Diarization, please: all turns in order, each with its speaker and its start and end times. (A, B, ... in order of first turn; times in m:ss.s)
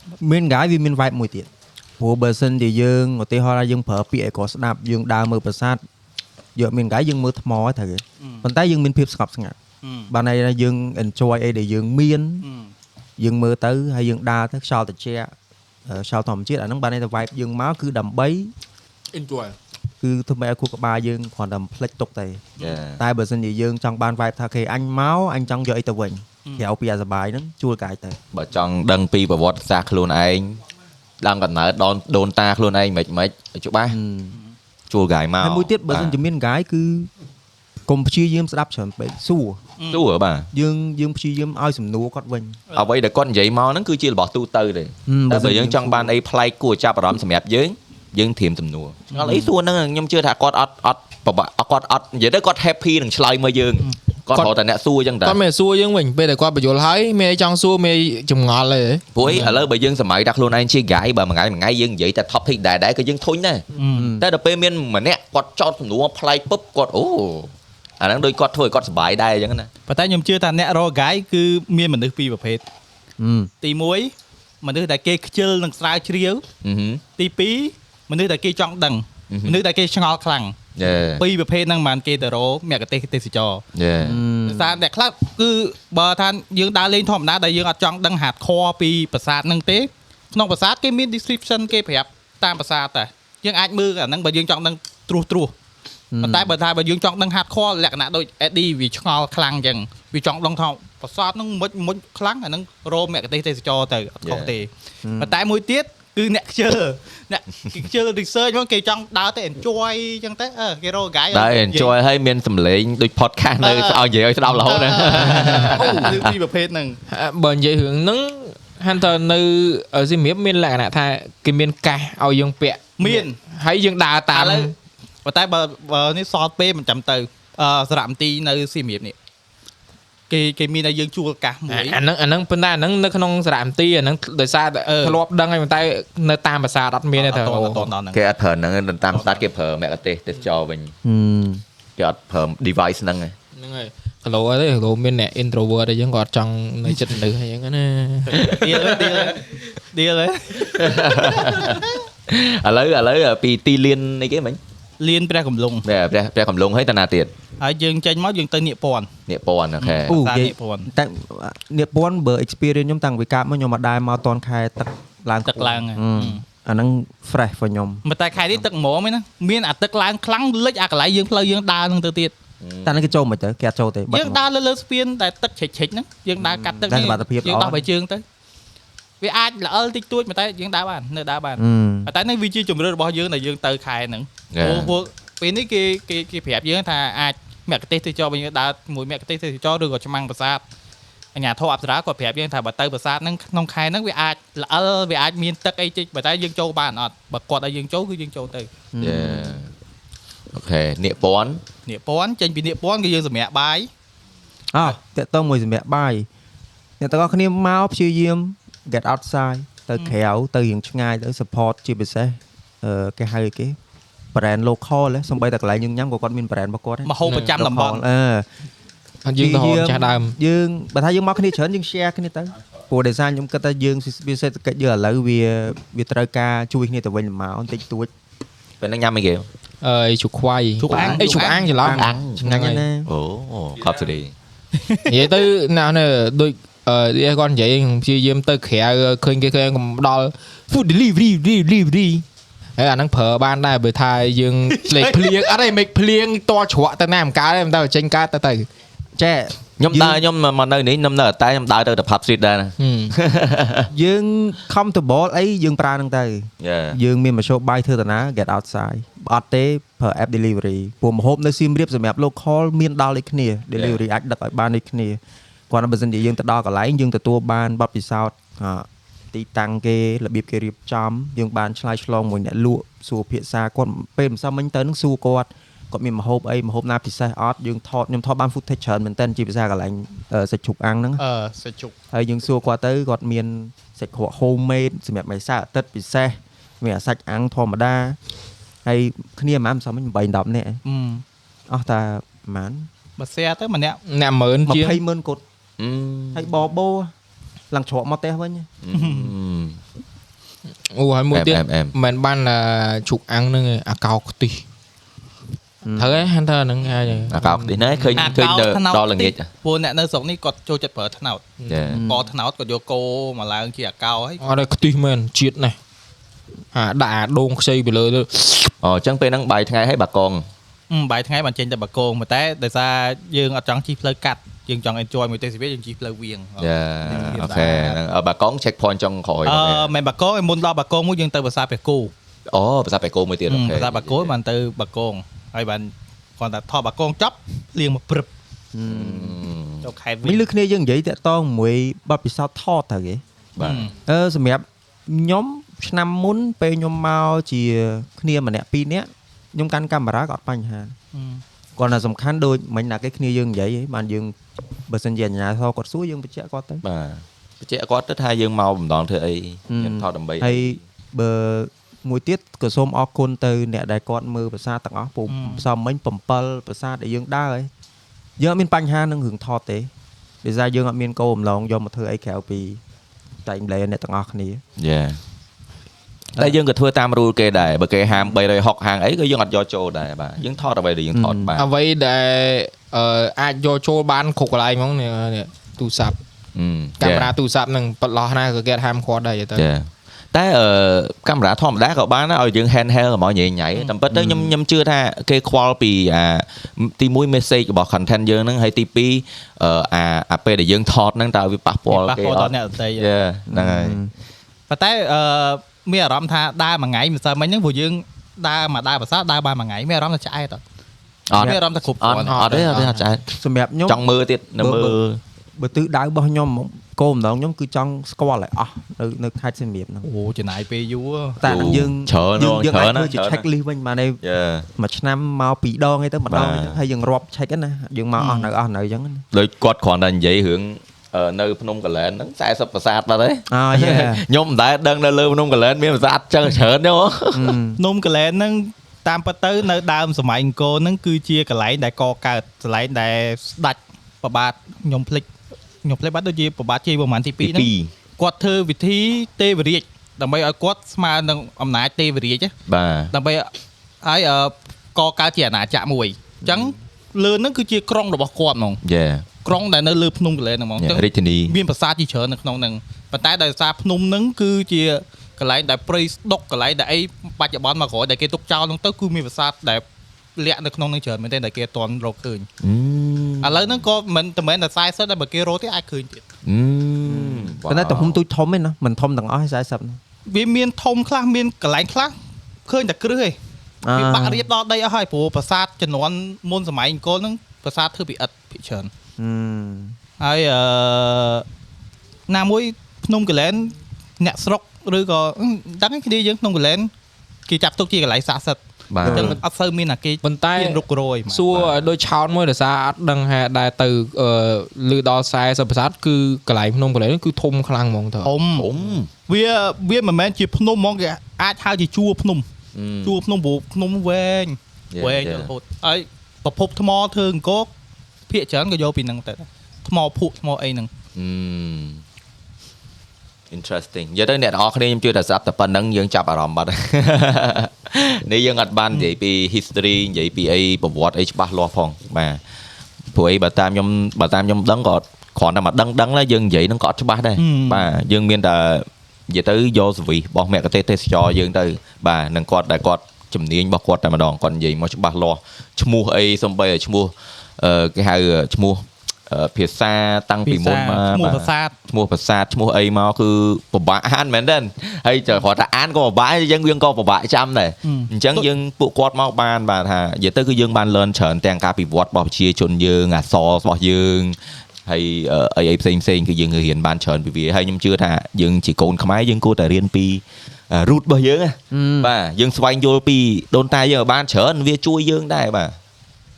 0:00.2-0:05.8 A
0:06.5-0:09.6 A
0:08.2-0:08.5 B
0:09.8-0:10.1 B
0:10.1-0:12.4 A
0:12.4-0:12.7 B
0:13.2-0:15.3 A
0:15.8-0:18.5 A
0:19.1-0:19.5 C
0:20.0-0:28.2 A
0:22.6-0:22.8 B
0:22.6-0:23.0 D
0:28.3-0:30.6 D
0:31.2-0:34.0 D
0:33.9-0:34.4 A
0:34.9-0:36.2 D
0:35.4-0:37.1 A
0:37.9-0:39.6 A
0:39.8-0:40.0 B
0:39.9-0:40.5 D
0:40.5-0:42.6 A
0:42.7-0:55.4 D
0:45.1-0:46.1 A
0:49.1-0:49.5 B
0:55.2-0:59.5 C
0:59.1-1:03.6 D
1:03.7-1:04.2 B
1:04.0-1:04.2 A
1:04.2-1:09.7 D
1:09.9-1:12.6 B
1:13.2-1:13.5 A
1:13.6-1:16.4 B
1:16.6-1:17.0 D
1:17.2-1:20.6 B
1:19.3-1:19.6 D
1:20.8-1:21.2 D
1:21.2-1:23.6 B
1:23.7-1:24.2 D
1:24.0-1:24.7 A
1:24.5-1:35.5 B
1:36.1-1:36.5 A
1:36.2-1:51.9 B
1:44.2-1:44.5 D
1:45.0-1:45.3 A
1:51.3-1:56.3 D
1:53.6-1:57.0 B
1:55.7-1:56.2 C
1:57.1-2:04.7 C
2:03.0-2:03.4 B
2:04.3-2:04.7 B
2:05.2-2:09.1 B
2:10.3-2:12.0 B
2:11.7-2:17.9 C
2:14.8-2:15.2 B
2:17.2-2:18.2 B
2:18.1-2:20.9 D
2:19.1-2:19.4 B
2:21.0-2:21.6 A
2:22.0-2:23.3 D
2:23.6-2:28.4 C
2:28.3-2:29.3 D
2:28.5-2:32.0 B
2:30.7-2:34.6 D
2:35.0-2:35.8 B
2:35.8-2:37.3 D
2:37.6-2:39.1 B
2:39.3-2:40.2 D
2:39.8-2:40.9 B
2:40.1-2:48.0 A
2:45.4-2:46.4 B
2:48.0-2:52.3 B
2:52.6-2:53.1 D
2:52.8-2:54.4 A
2:54.1-2:58.2 B
2:56.4-2:57.8 A
2:59.2-3:10.6 B
3:01.6-3:02.1 A
3:04.5-3:04.9 D
3:11.3-3:18.7 B
3:18.9-3:19.6 A
3:19.0-3:19.7 D
3:20.5-3:21.6 D
3:21.8-3:23.9 B
3:24.7-3:26.3 A
3:27.0-3:33.8 A
3:34.3-3:38.4 A
3:37.0-3:38.0 B
3:37.2-3:37.6 C
3:39.2-3:40.4 C
3:39.4-3:48.1 A
3:48.8-3:49.5 D
3:49.8-3:52.8 C
3:50.8-3:52.4 D
3:50.9-3:51.8 B
3:51.8-3:53.1 A
3:53.0-3:54.3 D
3:54.8-3:55.1 B
3:55.0-4:02.2 C
4:02.8-4:08.7 C
4:04.9-4:05.3 B
4:09.2-4:10.2 A
4:09.8-4:13.9 D
4:12.8-4:13.1 C
4:13.9-4:25.2 A
4:16.6-4:17.0 D
4:23.7-4:24.0 D
4:25.7-4:41.2 A
4:41.2-4:41.9 B
4:42.1-4:48.2 A
4:48.8-4:50.8 A
4:50.8-4:51.2 B
4:51.7-4:52.9 A
4:53.2-4:54.0 B
4:54.1-4:55.0 C
4:54.6-4:55.4 A
4:55.8-4:56.5 D
4:56.3-4:57.1 A
4:57.7-4:58.7 A
4:58.8-4:59.8 D
4:58.9-4:59.3 B
5:00.9-5:04.6 C
5:01.3-5:01.9 D
5:05.8-5:06.2 A
5:06.0-5:08.4 C
5:07.0-5:09.5 D
5:08.2-5:14.4 B
5:11.6-5:11.9 C
5:11.7-5:12.1 D
5:11.9-5:12.2 A
5:14.4-5:15.8 C
5:16.7-5:18.7 C
5:18.8-5:20.4 D
5:20.9-5:28.0 B
5:26.6-5:29.9 D
5:29.4-5:32.1 B
5:32.5-5:34.3 D
5:33.5-5:38.3 B
5:38.7-5:39.4 A
5:38.8-5:39.9 D
5:39.8-5:40.4 B
5:40.2-5:43.2 A
5:43.6-5:43.9 D
5:43.6-5:43.9 B
5:44.0-5:50.9 A
5:51.1-5:51.4 B
5:51.8-5:54.3 A
5:54.9-5:56.8 A
5:56.8-6:00.8 D
5:59.7-6:07.7 A
6:05.3-6:05.6 B
6:08.4-6:09.9 A
6:10.4-6:12.8 A
6:13.4-6:14.6 A
6:14.8-6:15.2 D
6:16.4-6:21.6 D
6:21.1-6:21.5 A
6:21.6-6:26.2 C
6:26.5-6:27.3 D
6:27.0-6:29.7 C
6:29.5-6:44.0 D
6:34.1-6:34.5 A
6:41.9-6:43.1 B
6:43.5-6:44.1 A
6:44.7-6:50.6 B
6:51.3-6:53.3 D
6:51.3-6:52.8 B
6:52.2-6:53.0 C
6:53.3-6:54.0 A
6:53.8-6:55.2 D
6:54.6-6:55.0 A
6:55.6-7:00.1 A
7:00.0-7:01.5 B
7:01.4-7:04.2 A
7:01.4-7:03.4 D
7:04.2-7:04.7 D
7:04.8-7:09.2 A
7:06.3-7:06.8 D
7:08.2-7:08.5 B
7:09.3-7:17.6 D
7:13.5-7:14.2 A
7:17.3-7:17.8 A
7:17.8-7:25.3 B
7:25.8-7:32.5 B
7:27.4-7:27.9 D
7:32.7-7:33.1 D
7:33.1-7:33.5 B
7:34.0-7:38.8 B
7:36.4-7:36.7 A
7:38.8-7:39.3 D
7:39.4-7:49.8 B
7:40.8-7:41.6 D
7:50.4-7:52.5 B
7:52.6-7:53.8 D
7:53.4-7:56.2 B
7:56.4-7:58.2 D
7:57.0-8:00.0 A
8:00.3-8:02.1 B
8:02.6-8:03.4 B
8:03.8-8:04.4 A
8:03.9-8:08.9 B
8:09.2-8:10.0 A
8:10.2-8:11.4 B
8:12.3-8:16.9 B
8:17.5-8:21.6 B
8:18.9-8:19.4 D
8:19.0-8:19.4 A
8:20.2-8:28.3 C
8:28.2-8:28.7 B
8:28.5-8:29.1 D
8:29.3-8:32.4 B
8:32.7-8:33.2 D
8:33.0-8:37.7 B
8:34.9-8:35.5 D
8:38.3-8:40.9 B
8:41.1-8:42.0 D
8:43.5-8:52.4 D
8:53.1-9:35.8 D
8:57.4-8:57.9 B
9:10.4-9:11.7 B
9:17.8-9:18.4 B
9:31.7-9:32.1 A